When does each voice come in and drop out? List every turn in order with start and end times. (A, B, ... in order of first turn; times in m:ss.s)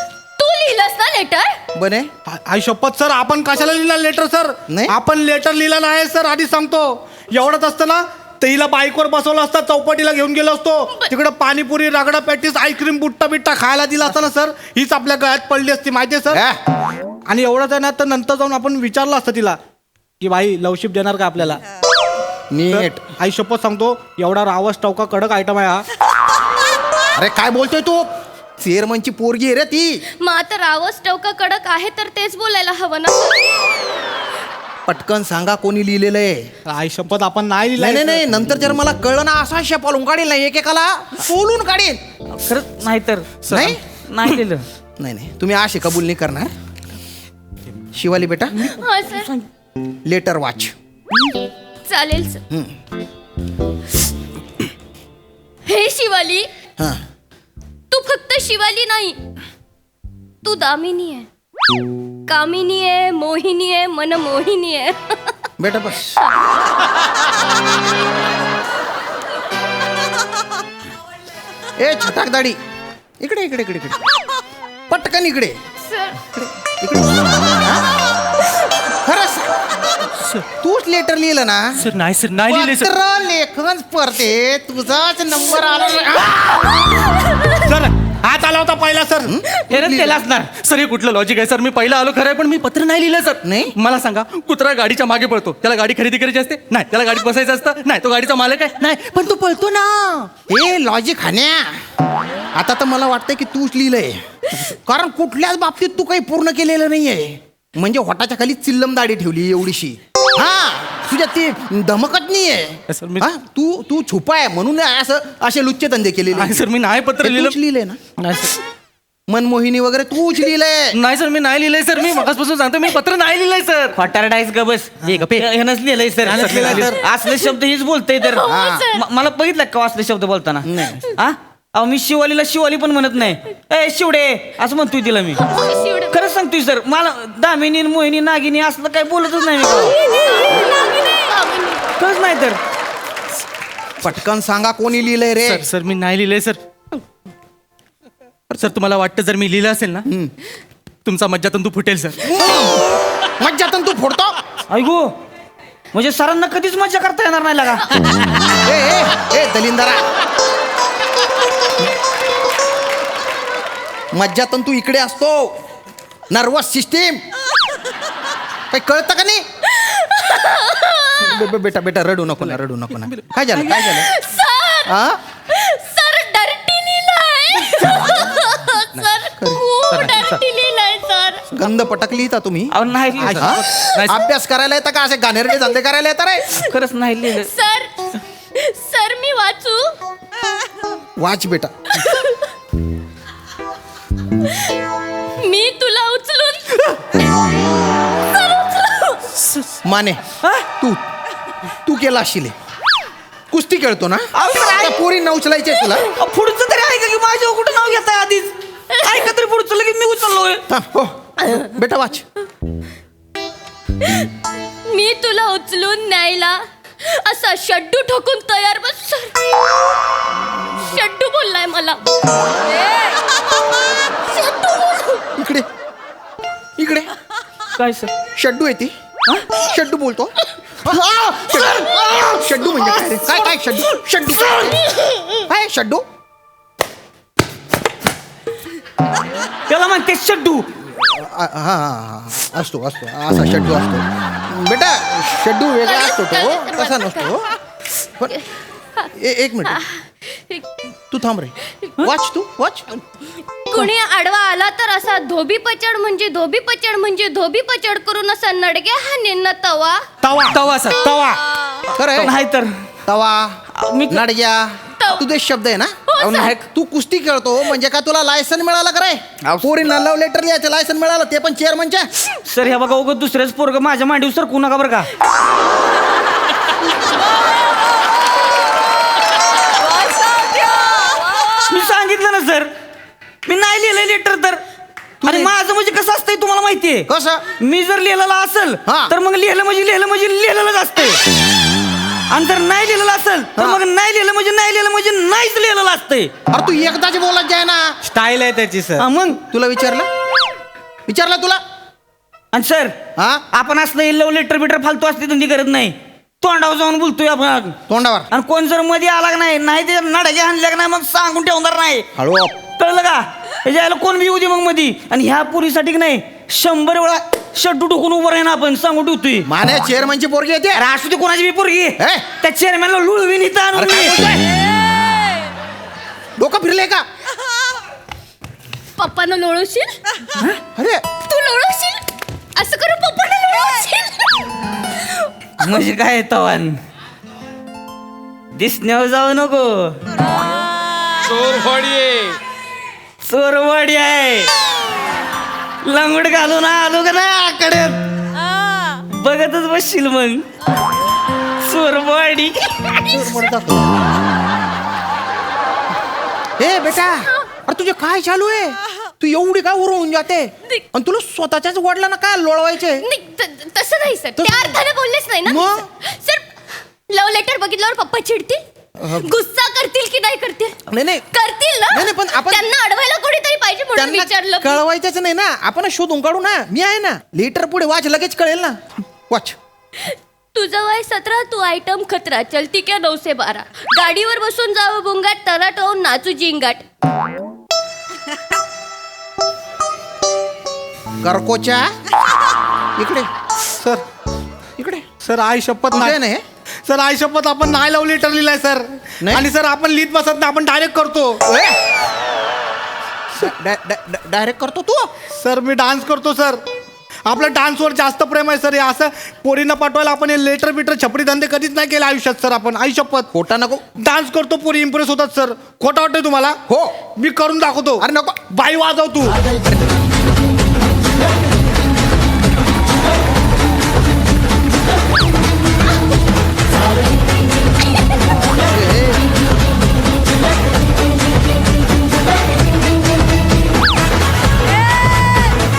0:00.4-0:01.6 A
0:01.7-0:02.1 B
0:02.3-0:16.4 C
0:04.7-0:05.0 B
0:16.3-0:16.6 B
0:17.3-0:19.6 C
0:20.2-0:21.6 C
0:22.5-0:23.0 B
0:22.7-0:25.8 C
0:27.1-0:28.1 B
0:28.6-0:30.0 B
0:30.2-0:33.5 A
0:34.9-0:36.5 B
0:36.6-0:38.2 C
0:37.8-0:42.0 B
0:42.3-0:44.6 D
0:43.5-0:43.8 E
0:43.5-0:43.8 B
0:45.0-0:46.5 B
0:47.9-0:48.6 B
0:48.5-0:49.5 D
0:48.8-0:49.3 A
0:50.0-0:50.7 B
0:51.9-0:52.4 A
0:55.6-0:56.4 A
0:57.9-0:59.2 A
1:00.4-1:01.3 A
1:02.3-1:05.2 A
1:05.6-1:06.2 B
1:11.8-1:12.6 B
1:13.2-1:14.0 B
1:14.9-1:15.6 B
1:15.8-1:16.2 A
1:16.2-1:17.8 B
1:19.0-1:19.5 B
1:20.2-1:20.4 E
1:20.6-1:21.8 B
1:21.8-1:22.9 E
1:22.5-1:26.8 B
1:27.6-1:29.3 C
1:29.2-1:30.2 B
1:29.7-1:30.5 D
1:30.6-1:40.3 E
1:33.4-1:33.7 B
1:40.5-1:41.8 B
1:42.5-1:56.6 B
1:52.9-1:53.2 E
1:56.3-1:57.6 E
1:57.2-1:58.0 B
1:58.2-1:58.6 E
1:59.3-2:01.0 B
2:00.9-2:04.0 E
2:03.9-2:15.4 D
2:05.0-2:05.5 E
2:06.2-2:07.0 E
2:06.3-2:06.9 B
2:08.2-2:09.0 A
2:08.4-2:08.9 B
2:10.6-2:11.0 B
2:15.4-2:16.2 A
2:16.1-2:20.0 D
2:19.8-2:21.8 A
2:22.0-2:22.6 D
2:24.0-2:25.7 B
2:25.4-2:26.6 E
2:28.5-2:30.0 E
2:30.1-2:30.3 B
2:31.0-2:32.2 E
2:32.2-2:34.4 B
2:34.7-2:35.1 D
2:35.9-2:37.9 D
2:38.6-2:40.0 B
2:44.1-2:45.5 B
2:46.3-2:47.2 B
2:48.7-2:49.4 B
2:49.7-2:51.3 A
2:51.2-2:54.1 B
2:53.7-2:55.0 A
2:54.9-2:55.2 B
2:55.5-3:01.4 A
2:59.9-3:00.4 E
3:01.5-3:02.7 B
3:02.7-3:03.5 D
3:03.2-3:04.2 E
3:03.3-3:06.4 B
3:06.6-3:07.5 D
3:07.3-3:07.9 A
3:08.6-3:09.9 A
3:11.2-3:11.7 B
3:12.0-3:12.4 A
3:15.4-3:17.5 A
3:18.1-3:19.2 A
3:19.8-3:20.2 B
3:21.8-3:22.5 B
3:23.5-3:26.0 B
3:24.3-3:25.0 D
3:26.2-3:30.6 D
3:30.7-3:32.2 B
3:34.9-3:39.4 A
3:40.4-3:41.0 B
3:40.8-3:42.0 A
3:44.3-3:45.1 A
3:45.4-3:45.6 B
3:46.8-3:47.1 B
3:47.8-3:48.1 D
3:48.3-3:48.9 B
3:49.6-3:50.3 B
3:50.8-3:54.8 B
3:51.5-3:52.0 D
3:55.4-3:56.0 B
3:59.7-4:00.7 D
4:00.9-4:07.5 B
4:05.8-4:07.3 A
4:09.1-4:09.8 B
4:09.7-4:10.6 A
4:11.1-4:12.8 B
4:13.7-4:20.0 A
4:20.2-4:20.6 C
4:20.5-4:21.0 E
4:21.0-4:21.4 B
4:21.9-4:22.3 B
4:22.0-4:22.7 D
4:23.0-4:23.6 B
4:23.8-4:24.2 D
4:24.1-4:32.1 B
4:25.0-4:25.2 A
4:26.1-4:26.5 A
4:26.2-4:26.6 D
4:29.4-4:29.7 D
4:32.5-4:35.1 D
4:41.6-4:42.7 D
4:43.4-4:44.6 D
4:45.2-4:47.1 D
4:47.1-4:47.4 B
4:47.6-4:51.2 D
4:48.8-4:49.1 B
4:52.3-4:56.3 D
4:53.6-4:53.8 B
4:56.5-4:57.8 B
4:58.0-4:59.0 C
4:59.0-4:59.4 D
4:59.5-5:00.1 B
5:01.1-5:01.6 B
5:02.5-5:02.9 D
5:03.2-5:03.4 B
5:03.5-5:07.8 D
5:07.9-5:08.3 B
5:08.3-5:12.1 D
5:12.2-5:12.6 B
5:12.8-5:19.5 D
5:19.4-5:20.8 B
5:20.7-5:24.2 D
5:22.0-5:22.2 B
5:23.7-5:24.4 B
5:26.4-5:27.0 B
5:29.0-5:30.0 A
5:30.8-5:31.0 B
5:31.2-5:32.0 A
5:32.6-5:34.4 A
5:35.6-5:36.8 D
5:38.6-5:40.0 D
5:41.4-5:42.0 D
5:43.2-5:44.5 D
5:45.8-5:48.0 D
5:49.1-5:50.4 D
5:51.6-5:53.0 D
5:53.1-5:54.0 B
5:56.6-6:03.0 B
6:03.0-6:06.4 A
6:04.4-6:04.8 B
6:05.4-6:05.9 B
6:07.1-6:08.6 A
6:09.0-6:09.3 B
6:09.1-6:10.7 A
6:10.9-6:11.2 B
6:11.3-6:14.8 A
6:11.9-6:12.7 B
6:14.0-6:19.6 B
6:20.5-6:26.8 A
6:31.2-6:31.9 B
6:33.0-6:33.3 B
6:33.8-6:34.0 C
6:34.8-6:35.1 B
6:35.2-6:36.2 C
6:35.9-6:36.4 B
6:36.8-6:41.4 C
6:39.2-6:39.5 B
6:41.4-6:41.7 B
6:43.3-6:45.1 B
6:45.4-6:46.6 C
6:47.2-6:53.3 C
6:53.3-6:53.8 B
6:54.0-6:56.6 C
6:56.7-6:57.0 B
6:57.2-6:59.4 C
6:58.0-6:58.4 B
7:08.6-7:09.2 B